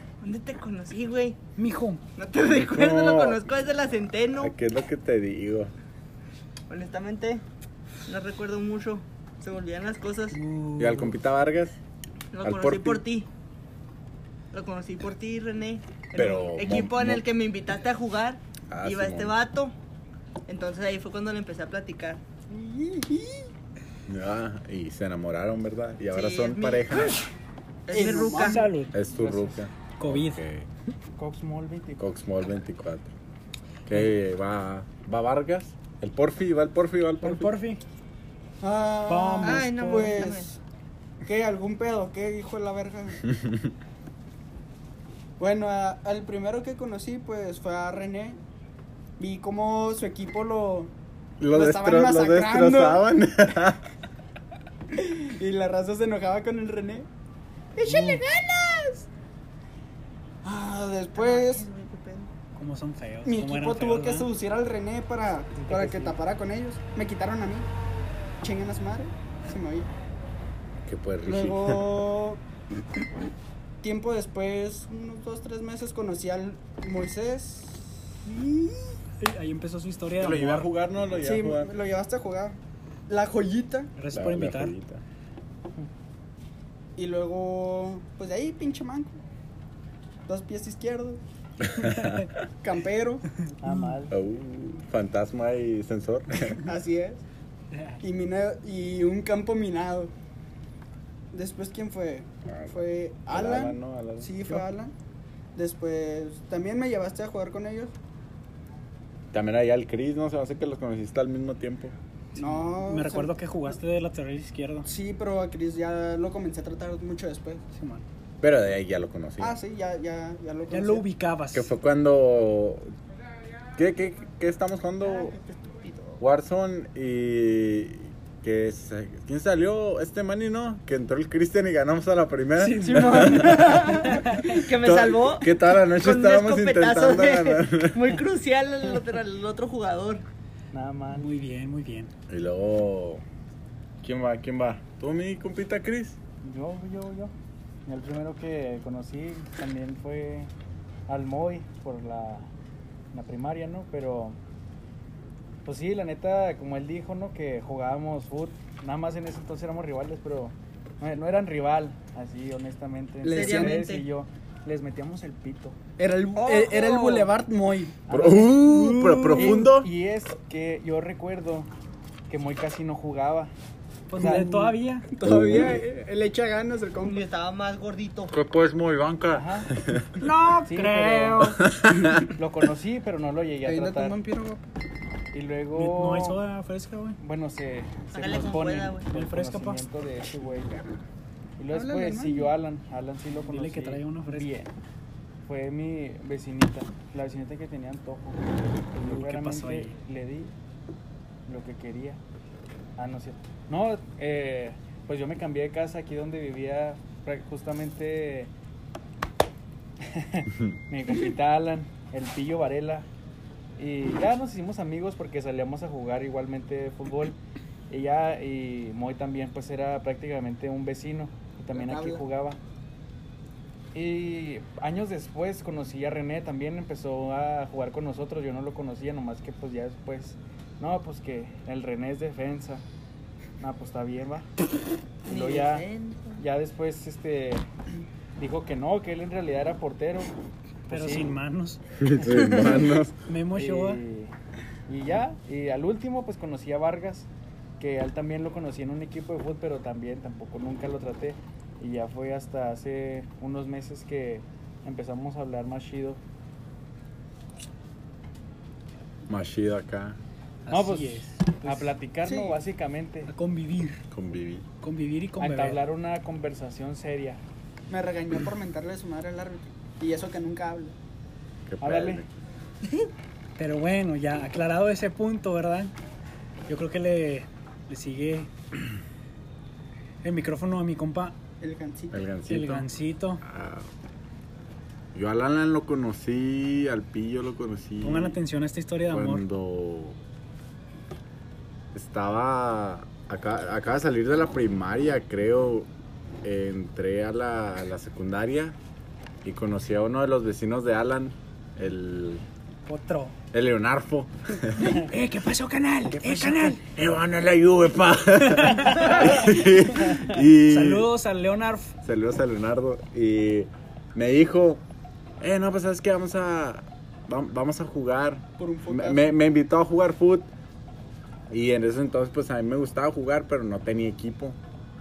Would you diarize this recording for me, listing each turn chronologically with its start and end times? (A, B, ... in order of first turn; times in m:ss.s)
0:00.2-0:01.4 A
0:01.6-0:02.0 B
0:02.2-0:04.5 A
0:02.5-0:03.4 C
0:04.4-0:05.7 C
0:06.7-0:07.4 A
0:08.0-0:10.4 A
0:10.3-0:11.1 B
0:10.8-0:11.8 C
0:12.3-0:13.3 A
0:12.4-0:13.0 C
0:14.5-0:19.7 A
0:16.1-0:17.2 C
0:18.7-0:19.4 C
0:20.5-0:22.2 A
0:22.5-0:23.5 D
0:24.1-0:27.2 C
0:26.1-0:27.1 A
0:27.9-0:28.7 A
0:27.9-0:28.7 D
0:28.4-0:29.0 B
0:28.9-0:30.7 C
0:29.2-0:29.6 E
0:29.9-0:30.4 B
0:31.2-0:32.0 E
0:32.0-0:33.1 C
0:33.9-0:37.5 C
0:37.2-0:37.8 B
0:38.6-0:40.5 D
0:39.0-0:40.1 B
0:39.4-0:40.6 A
0:41.2-0:43.2 D
0:45.4-0:48.4 D
0:49.2-0:50.9 D
0:51.4-0:53.8 C
0:51.5-0:53.0 D
0:54.9-0:57.1 D
0:57.7-0:59.1 D
0:57.8-0:58.2 B
1:00.4-1:01.7 D
1:01.1-1:02.3 A
1:02.5-1:04.3 B
1:03.2-1:07.7 D
1:05.6-1:06.2 E
1:08.4-1:09.9 D
1:10.8-1:12.0 C
1:11.2-1:12.4 D
1:13.8-1:19.0 D
1:19.2-1:20.7 B
1:20.2-1:21.7 C
1:21.2-1:23.9 D
1:24.0-1:24.7 B
1:24.1-1:25.0 C
1:27.0-1:29.2 D
1:30.3-1:31.2 D
1:31.6-1:32.3 C
1:31.8-1:32.2 B
1:32.6-1:33.2 D
1:33.6-1:34.1 E
1:34.1-1:36.6 C
1:36.6-1:37.2 D
1:37.7-1:38.0 B
1:38.0-1:40.1 D
1:41.3-1:44.9 D
1:42.4-1:44.7 C
1:45.5-1:47.9 D
1:49.3-1:51.9 C
1:52.3-1:54.9 B
1:52.4-1:53.4 D
1:54.8-1:57.6 D
1:57.7-1:58.0 B
1:58.4-1:59.6 C
1:59.4-2:01.0 D
2:00.7-2:01.7 B
2:01.5-2:02.9 C
2:03.7-2:05.4 C
2:05.0-2:05.6 D
2:05.8-2:06.2 A
2:06.2-2:13.8 C
2:12.6-2:14.6 B
2:12.9-2:20.2 A
2:14.7-2:18.1 C
2:20.7-2:21.3 E
2:21.1-2:22.1 B
2:22.3-2:23.2 C
2:24.0-2:26.2 C
2:26.4-2:27.3 E
2:27.8-2:30.5 E
2:31.1-2:32.5 E
2:33.1-2:34.4 E
2:35.6-2:45.8 E
2:43.2-2:43.8 D
2:43.2-2:44.0 A
2:46.0-2:49.7 D
2:46.4-2:47.3 A
2:48.1-2:48.5 E
2:48.1-2:49.9 C
2:49.3-2:51.7 E
2:52.3-2:53.5 E
2:54.1-2:55.1 B
2:54.2-2:54.4 E
2:54.2-2:57.3 D
2:55.2-2:55.8 C
2:57.0-2:58.3 A
2:58.3-3:00.1 C
2:59.3-2:59.7 E
3:00.2-3:01.7 B
3:00.6-3:01.5 E
3:01.6-3:02.2 C
3:02.1-3:04.2 E
3:03.6-3:04.6 D
3:05.3-3:06.4 E
3:05.7-3:07.2 B
3:07.2-3:10.7 E
3:08.1-3:09.1 A
3:09.1-3:09.8 B
3:11.6-3:14.7 E
3:11.7-3:12.5 D
3:13.3-3:14.5 B
3:15.4-3:20.5 E
3:19.0-3:20.0 B
3:21.4-3:22.2 E
3:23.0-3:28.5 E
3:30.0-3:33.1 E
3:33.8-3:37.4 E
3:37.9-3:42.6 E
3:41.7-3:42.2 D
3:43.9-3:52.8 E
3:53.6-3:54.5 E
3:55.2-3:56.4 A
3:55.2-3:57.7 E
3:58.4-4:00.3 E
4:00.9-4:01.8 B
4:00.9-4:01.3 E
4:02.0-4:03.2 C
4:02.3-4:02.9 A
4:03.3-4:04.0 B
4:03.5-4:04.3 E
4:04.9-4:16.2 E
4:19.3-4:20.2 C
4:20.6-4:22.0 B
4:20.7-4:23.3 E
4:22.2-4:22.6 D
4:23.3-4:24.0 B
4:24.1-4:24.6 C
4:24.8-4:25.8 B
4:25.4-4:27.4 E
4:27.9-4:30.9 D
4:31.6-4:32.3 C
4:31.8-4:32.2 E
4:33.6-4:35.9 B
4:36.7-4:38.5 B
4:40.2-4:41.4 B
4:41.6-4:42.2 D
4:42.1-4:42.9 C
4:42.5-4:43.4 B
4:43.4-4:43.9 C
4:45.1-4:48.4 C
4:48.0-4:49.4 B
4:49.1-4:50.2 C
4:51.9-4:55.9 C
4:56.4-4:58.8 C
4:59.4-5:02.4 C
5:02.8-5:03.4 B
5:03.5-5:05.0 C
5:04.8-5:06.8 B
5:06.1-5:11.1 C
5:08.6-5:09.5 B
5:10.6-5:11.9 B
5:12.0-5:14.8 C
5:15.4-5:20.5 C
5:18.6-5:19.3 D
5:21.5-5:24.6 C